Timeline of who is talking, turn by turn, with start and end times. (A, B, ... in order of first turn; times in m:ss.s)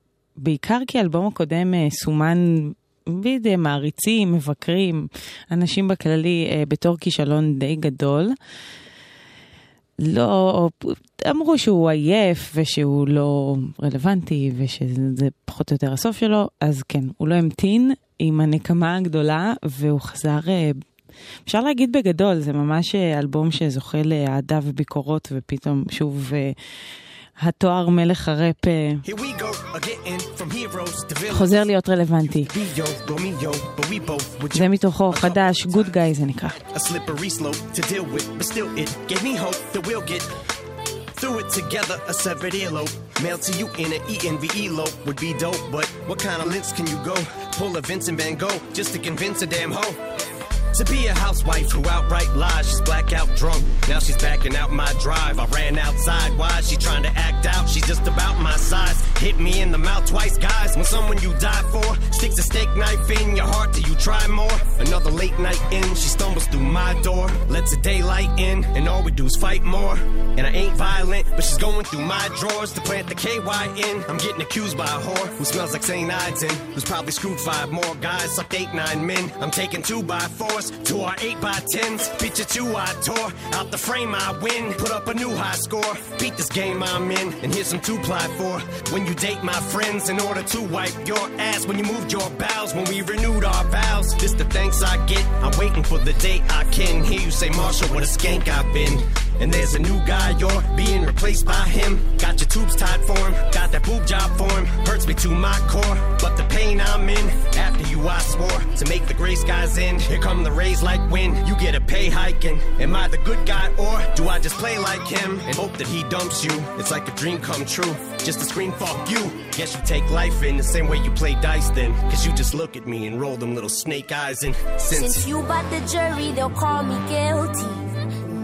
0:00.4-0:08.3 A
0:10.0-0:20.7 A
0:21.5-0:26.6 A
0:27.4-0:29.0 A
0:29.0-0:31.5 B
0:31.3-0:32.5 A
0:32.5-0:35.4 B
0:34.5-0:36.6 A
0:36.7-0:40.3 B
0:41.2-0:50.0 B
0:50.7-2:05.3 B
2:04.9-2:07.9 C